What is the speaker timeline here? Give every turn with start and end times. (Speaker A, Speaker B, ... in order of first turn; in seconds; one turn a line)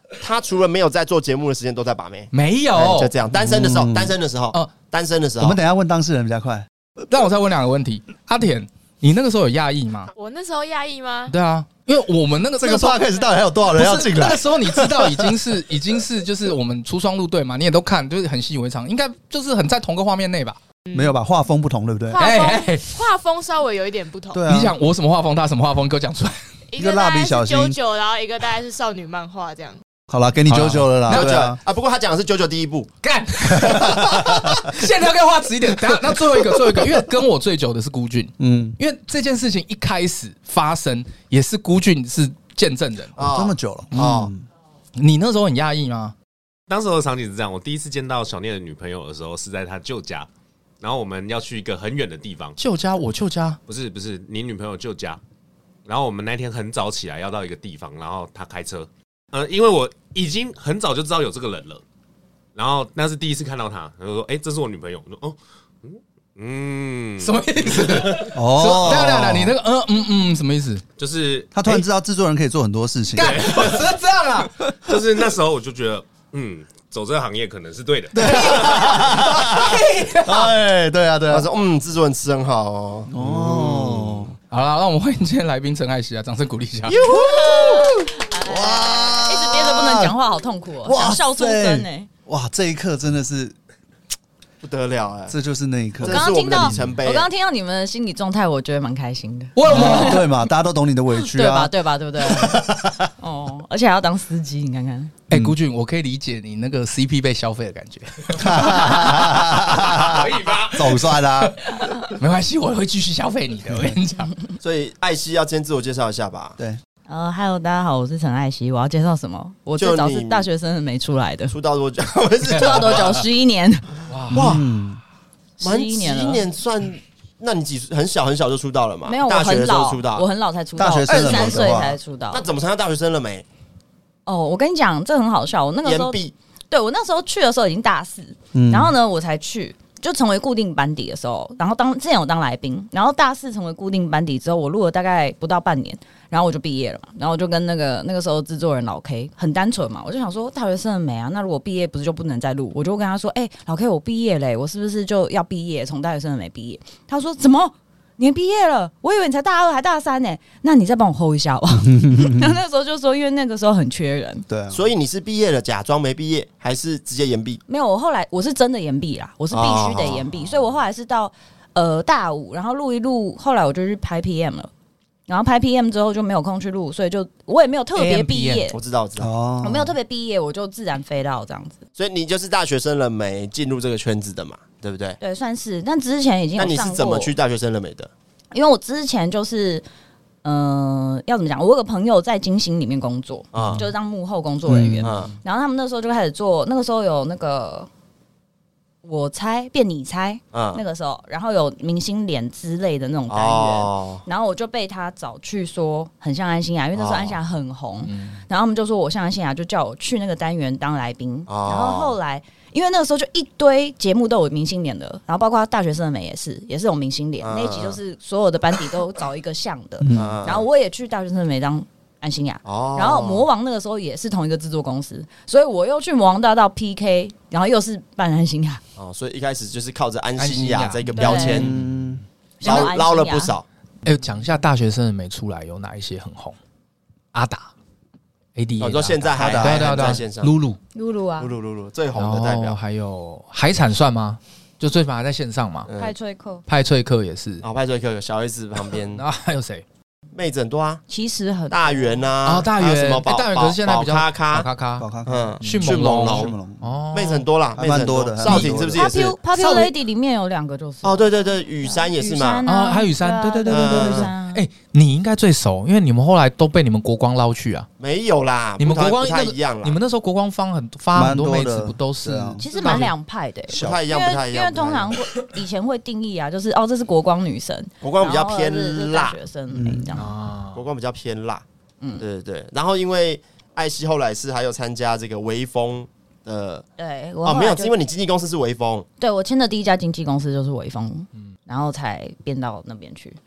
Speaker A: 0.2-5.6
Speaker B: 2.3-3.1
Speaker C: 3.3-4.2
Speaker C: 5.4-6.7
Speaker B: 7.0-10.1
Speaker D: 10.2-11.3
Speaker B: 11.3-13.0
Speaker C: 12.6-15.3
Speaker B: 13.7-20.6
Speaker D: 20.9-21.2
Speaker C: 20.9-22.3
Speaker D: 22.1-24.4
Speaker B: 22.2-23.1
Speaker C: 24.3-24.8
Speaker B: 24.5-26.4
Speaker D: 26.7-29.8
Speaker C: 26.8-27.8
Speaker C: 30.1-31.6
Speaker B: 30.5-31.4
Speaker A: 31.1-32.9
Speaker B: 33.0-43.2
Speaker C: 33.7-34.7
Speaker C: 38.4-38.8
Speaker A: 43.2-44.3
Speaker C: 43.2-44.5
Speaker B: 43.9-44.2
Speaker B: 45.0-46.1
Speaker E: 46.7-50.3
Speaker E: 50.8-52.6
Speaker B: 52.6-53.6
Speaker E: 53.7-55.2
Speaker E: 55.9-61.8
Speaker E: 62.5-68.9
Speaker B: 67.2-70.8
Speaker C: 68.3-69.6
Speaker E: 71.0-71.8
Speaker C: 71.5-73.7
Speaker B: 73.2-74.6
Speaker E: 73.2-73.8
Speaker E: 74.8-79.0
Speaker C: 78.1-81.5
Speaker B: 78.2-80.5
Speaker A: 81.3-84.3
Speaker C: 83.1-84.3
Speaker B: 84.5-87.0
Speaker C: 86.9-90.2
Speaker F: 87.1-92.1
Speaker C: 90.8-93.6
Speaker A: 94.6-95.4
Speaker C: 95.3-97.0
Speaker A: 96.0-97.3
Speaker F: 96.0-100.3
Speaker B: 99.6-100.3
Speaker C: 99.7-103.1
Speaker F: 101.3-105.1
Speaker B: 105.3-114.4
Speaker C: 105.3-105.6
Speaker C: 108.4-111.6
Speaker E: 110.1-110.7
Speaker A: 114.6-116.6
Speaker F: 117.1-121.5
Speaker A: 119.8-120.5
Speaker A: 121.5-123.2
Speaker F: 122.5-123.9
Speaker B: 124.1-124.6
Speaker A: 124.3-124.7
Speaker C: 124.3-125.0
Speaker F: 125.6-126.5
Speaker A: 125.6-130.3
Speaker F: 129.1-132.5
Speaker C: 130.8-132.0
Speaker A: 131.1-131.7
Speaker A: 132.3-133.4
Speaker F: 134.3-136.2
Speaker A: 135.8-136.3
Speaker F: 136.7-164.5
Speaker C: 138.5-138.9
Speaker C: 161.7-162.6
Speaker C: 164.5-164.9
Speaker A: 164.7-167.6
Speaker F: 167.7-174.7
Speaker A: 169.5-170.3
Speaker F: 175.3-178.8
Speaker B: 178.0-178.7
Speaker A: 178.7-179.3
Speaker C: 179.2-179.9
Speaker F: 179.6-181.8
Speaker A: 182.0-185.2
Speaker F: 185.2-187.3
Speaker A: 186.6-188.1
Speaker F: 188.5-189.8
Speaker F: 190.4-197.9
Speaker A: 193.5-193.8
Speaker C: 193.6-193.8
Speaker C: 194.7-195.1
Speaker A: 195.0-195.3
Speaker F: 199.0-228.8
Speaker A: 200.5-200.8
Speaker A: 203.3-204.2
Speaker A: 206.9-207.4
Speaker B: 208.1-208.4
Speaker A: 211.5-212.2
Speaker A: 217.4-218.0
Speaker C: 220.0-220.5
Speaker A: 220.2-220.7
Speaker A: 222.7-223.5
Speaker A: 229.0-231.7
Speaker B: 230.4-231.8
Speaker F: 231.2-231.6
Speaker C: 231.6-232.2
Speaker F: 232.6-233.5
Speaker A: 232.6-233.7
Speaker B: 234.1-236.6
Speaker B: 237.3-237.7
Speaker B: 238.6-240.8
Speaker A: 238.8-240.5
Speaker C: 239.4-240.2
Speaker F: 240.9-241.5
Speaker A: 241.4-242.8
Speaker B: 242.2-245.9
Speaker A: 245.9-246.2
Speaker F: 246.0-246.6
Speaker B: 246.7-247.6
Speaker A: 247.6-249.2
Speaker B: 249.2-249.8
Speaker A: 250.3-251.0
Speaker F: 251.1-252.2
Speaker A: 251.7-254.7
Speaker B: 252.4-255.1
Speaker C: 255.0-256.8
Speaker A: 255.3-256.5
Speaker B: 255.6-257.5
Speaker A: 257.1-259.4
Speaker C: 257.8-259.1
Speaker F: 258.4-264.6
Speaker B: 259.5-259.9
Speaker A: 261.0-262.6
Speaker B: 262.7-267.9
Speaker A: 263.7-264.3
Speaker A: 268.0-270.0
Speaker B: 268.8-273.1
Speaker C: 271.1-273.1
Speaker F: 272.6-280.3
Speaker C: 273.7-274.0
Speaker A: 273.7-275.1
Speaker A: 278.0-279.4
Speaker C: 279.7-280.2
Speaker B: 280.1-280.8
Speaker A: 280.7-281.6
Speaker A: 282.2-286.9
Speaker F: 287.0-287.9
Speaker A: 287.4-289.1
Speaker F: 289.2-293.4